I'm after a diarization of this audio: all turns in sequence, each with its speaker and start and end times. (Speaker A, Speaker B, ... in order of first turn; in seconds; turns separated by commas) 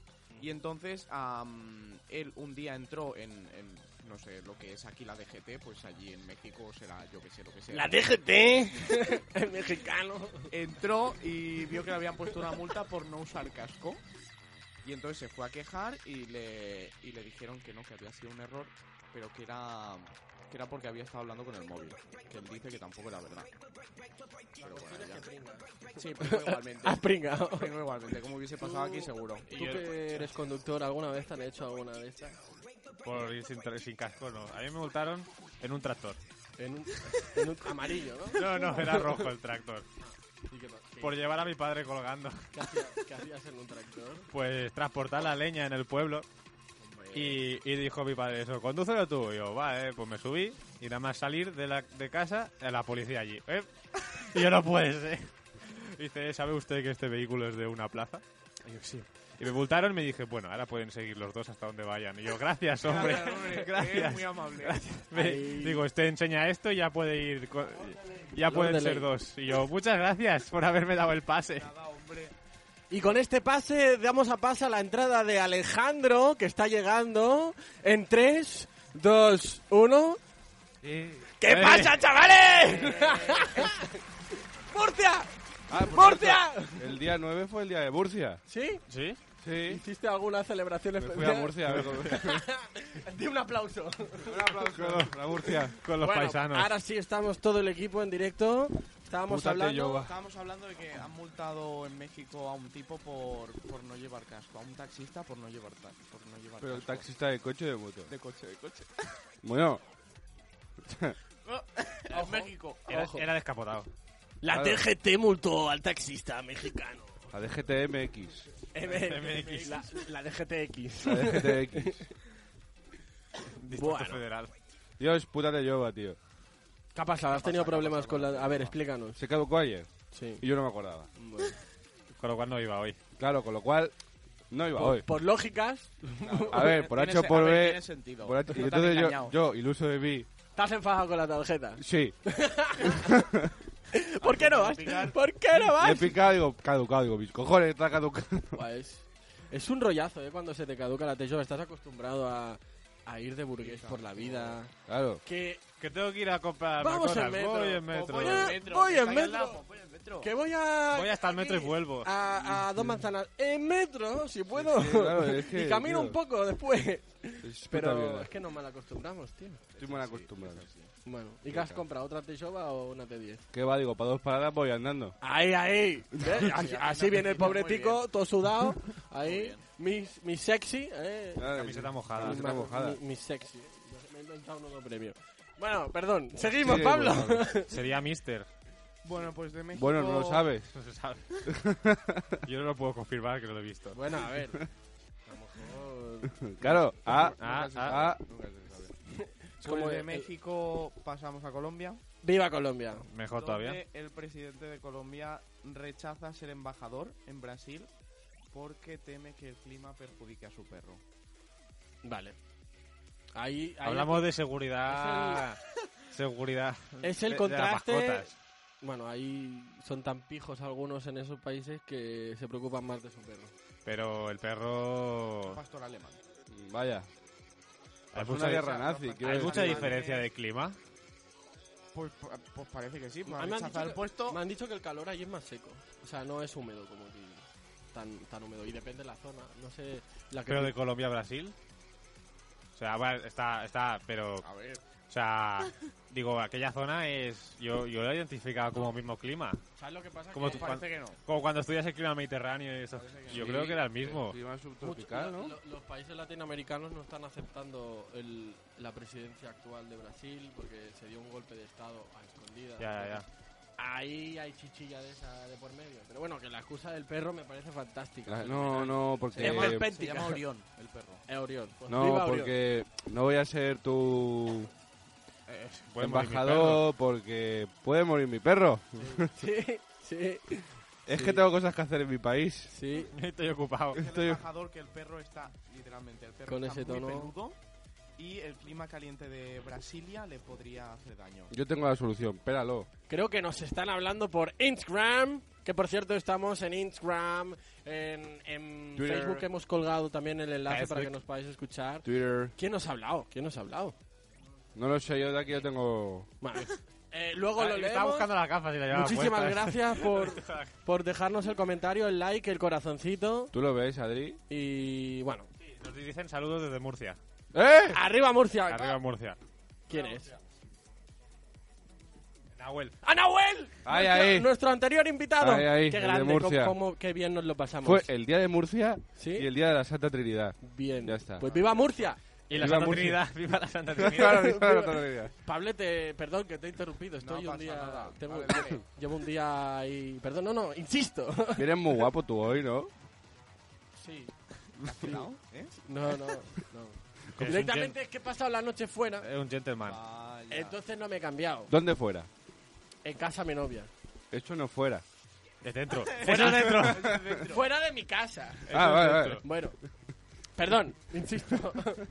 Speaker A: 0.4-8.0, Speaker B: 7.7-10.5, Speaker A: 10.5-14.0, Speaker A: 14.8-23.6, Speaker A: 24.6-25.3, Speaker B: 24.6-27.8, Speaker A: 26.0-29.5, Speaker B: 28.6-32.4, Speaker C: 29.6-30.2, Speaker C: 33.0-36.2, Speaker B: 36.6-39.3, Speaker C: 38.3-39.9, Speaker B: 40.0-41.5, Speaker C: 41.0-42.5, Speaker B: 42.5-44.3, Speaker C: 44.3-46.3, Speaker B: 46.8-47.4, Speaker C: 47.1-71.7, Speaker A: 62.8-64.8, Speaker B: 65.1-65.8, Speaker B: 68.5-69.1, Speaker A: 71.5-72.3, Speaker B: 72.9-80.2, Speaker D: 80.8-82.0, Speaker B: 81.4-84.0, Speaker A: 82.8-83.7, Speaker B: 84.7-87.0, Speaker D: 85.7-88.4, Speaker B: 88.5-88.8, Speaker C: 88.9-89.2, Speaker D: 89.4-89.8, Speaker B: 89.6-100.0, Speaker D: 91.0-92.5, Speaker D: 94.2-95.8, Speaker C: 95.8-96.7, Speaker D: 99.3-100.2, Speaker A: 100.0-107.1, Speaker D: 106.6-108.1, Speaker A: 108.1-108.9, Speaker D: 109.4-109.8, Speaker D: 110.8-111.2, Speaker A: 111.5-112.9, Speaker B: 112.1-113.2, Speaker C: 112.9-113.9, Speaker B: 114.4-117.3, Speaker D: 114.5-114.9, Speaker D: 117.3-118.5, Speaker B: 118.7-122.0, Speaker A: 118.9-119.8, Speaker C: 119.0-119.8, Speaker D: 121.0-122.1, Speaker C: 123.6-124.5, Speaker B: 123.7-124.2, Speaker D: 125.0-126.2, Speaker B: 127.0-129.2, Speaker A: 127.3-128.8, Speaker D: 129.2-131.1, Speaker B: 130.1-130.4, Speaker B: 131.2-131.6, Speaker C: 132.2-133.0, Speaker D: 133.2-133.9, Speaker D: 134.5-135.1, Speaker B: 134.8-136.9, Speaker A: 136.2-139.3, Speaker D: 136.5-140.3, Speaker B: 140.6-143.2, Speaker D: 141.8-142.2, Speaker D: 142.8-143.5, Speaker B: 143.9-146.2, Speaker A: 144.2-145.2, Speaker D: 145.6-148.6, Speaker B: 148.5-154.7, Speaker A: 153.6-154.6, Speaker D: 154.9-155.2, Speaker B: 155.2-155.6, Speaker C: 155.8-158.6, Speaker B: 156.8-159.6, Speaker A: 157.9-160.3, Speaker B: 160.2-169.7, Speaker C: 160.9-162.1, Speaker D: 164.5-166.2, Speaker D: 167.4-168.3, Speaker A: 169.7-170.9, Speaker D: 169.8-170.7, Speaker B: 171.1-173.5, Speaker D: 171.5-171.8, Speaker D: 173.5-175.2, Speaker B: 175.2-181.5, Speaker D: 176.1-176.4, Speaker A: 176.2-178.0, Speaker A: 179.2-179.6, Speaker D: 181.4-183.0, Speaker C: 181.6-182.4, Speaker B: 182.1-187.8, Speaker D: 186.6-187.5, Speaker C: 187.7-188.5, Speaker A: 189.0-190.5, Speaker D: 189.8-190.7, Speaker C: 190.7-191.3, Speaker D: 191.5-192.4, Speaker C: 192.4-194.0, Speaker B: 193.9-194.7, Speaker D: 194.3-194.6, Speaker B: 195.3-196.8, Speaker D: 196.3-198.2, Speaker A: 197.0-198.9, Speaker C: 197.4-198.0, Speaker B: 199.1-200.3, Speaker A: 199.6-202.0, Speaker B: 202.2-203.1, Speaker C: 203.1-203.8, Speaker A: 203.3-207.9, Speaker A: 208.5-211.0, Speaker B: 212.0-212.3, Speaker B: 213.3-214.3, Speaker C: 213.8-215.6, Speaker B: 214.8-215.5, Speaker C: 216.1-218.3, Speaker B: 217.0-223.5, Speaker C: 223.9-225.6, Speaker A: 225.5-226.2, Speaker D: 226.5-227.1, Speaker D: 228.1-230.0, Speaker C: 228.1-228.7, Speaker A: 228.3-230.3, Speaker C: 229.2-230.8, Speaker A: 231.9-234.4, Speaker B: 233.3-240.8, Speaker C: 240.5-241.6, Speaker C: 242.8-244.4, Speaker A: 244.4-244.8, Speaker C: 245.1-249.6, Speaker B: 249.8-250.8, Speaker C: 250.3-254.4, Speaker A: 250.4-251.2, Speaker A: 252.9-253.7, Speaker D: 253.3-255.6, Speaker B: 254.8-263.2, Speaker C: 262.8-263.3, Speaker B: 263.8-270.4, Speaker D: 268.3-270.0, Speaker A: 269.4-271.2, Speaker B: 271.3-272.6, Speaker D: 271.9-274.7, Speaker C: 275.5-276.9, Speaker D: 276.0-279.3, Speaker B: 279.0-281.4, Speaker D: 281.1-282.7, Speaker B: 282.7-283.1, Speaker C: 283.1-284.0, Speaker D: 283.9-284.4, Speaker A: 283.9-287.6, Speaker B: 286.5-287.3, Speaker A: 288.2-291.5, Speaker D: 291.5-292.9, Speaker B: 293.1-303.9, Speaker D: 299.0-299.5, Speaker C: 300.7-301.1, Speaker D: 302.0-302.5, Speaker D: 304.8-306.3, Speaker B: 306.4-308.3, Speaker C: 307.6-310.7, Speaker B: 308.9-313.5, Speaker D: 313.5-314.4, Speaker B: 314.5-315.5, Speaker C: 315.6-317.2, Speaker D: 317.5-318.0, Speaker B: 317.9-319.0, Speaker C: 318.7-319.4, Speaker B: 319.9-320.3, Speaker A: 319.9-320.3, Speaker C: 322.6-323.0, Speaker B: 323.0-328.1, Speaker D: 323.9-324.5, Speaker D: 325.4-326.8, Speaker D: 327.8-331.5, Speaker B: 329.1-329.5, Speaker B: 330.6-333.1, Speaker C: 332.5-334.4, Speaker D: 332.5-333.2, Speaker D: 334.0-335.3, Speaker B: 334.1-341.7, Speaker A: 337.2-338.8, Speaker D: 341.6-342.9, Speaker B: 344.0-344.3, Speaker A: 344.8-345.7, Speaker B: 345.8-349.3, Speaker C: 347.4-347.9, Speaker C: 349.2-350.0, Speaker A: 349.9-350.8, Speaker B: 350.5-351.7, Speaker D: 351.7-352.3, Speaker B: 353.0-353.9, Speaker D: 354.3-355.0, Speaker C: 355.6-357.0, Speaker A: 356.1-357.7, Speaker B: 356.2-356.8, Speaker D: 356.5-357.3, Speaker B: 357.5-358.7, Speaker C: 358.7-359.4, Speaker D: 358.7-359.5, Speaker B: 359.4-359.8, Speaker B: 360.6-362.0